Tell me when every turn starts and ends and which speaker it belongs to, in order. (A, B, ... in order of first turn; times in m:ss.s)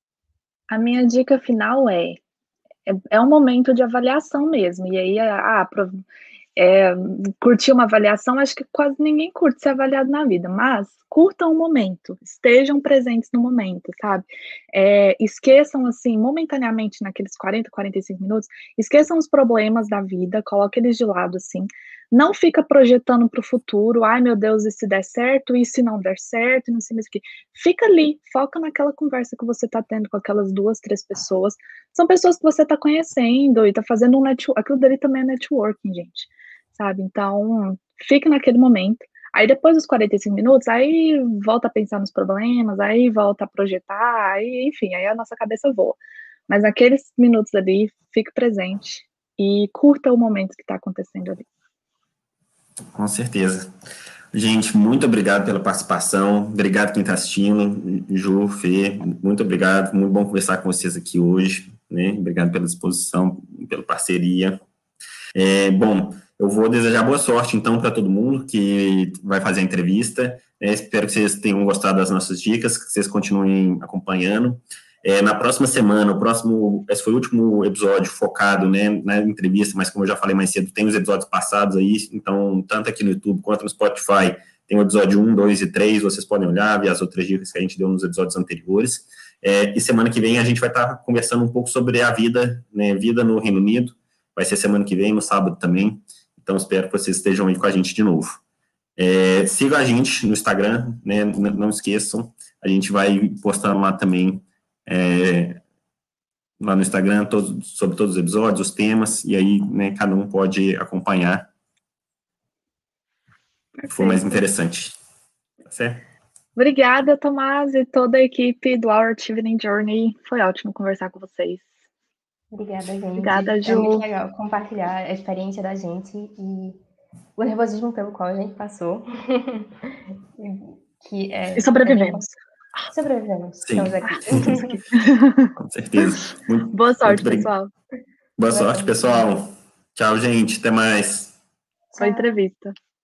0:00.7-0:02.2 A
0:02.9-0:06.0 A
0:06.6-0:51.5 A
0:53.0-0:53.7 B
0:54.3-1:04.6 B
1:05.4-1:38.4 B
1:39.0-1:45.6 B
1:46.6-1:51.5 B
1:53.8-1:54.4 A
1:53.9-1:55.0 B
1:55.7-1:56.0 B
1:56.6-2:01.7 A
2:02.5-2:06.8 C
2:03.2-2:04.1 A
2:07.4-2:12.3 C
2:11.6-2:12.3 A
2:12.9-2:14.8 C
2:13.7-2:14.7 B
2:14.9-2:16.1 A
2:15.6-2:17.5 B
2:16.7-2:17.7 A
2:18.4-2:21.4 B
2:18.5-2:19.3 C
2:21.9-2:22.3 C
2:22.0-2:22.8 A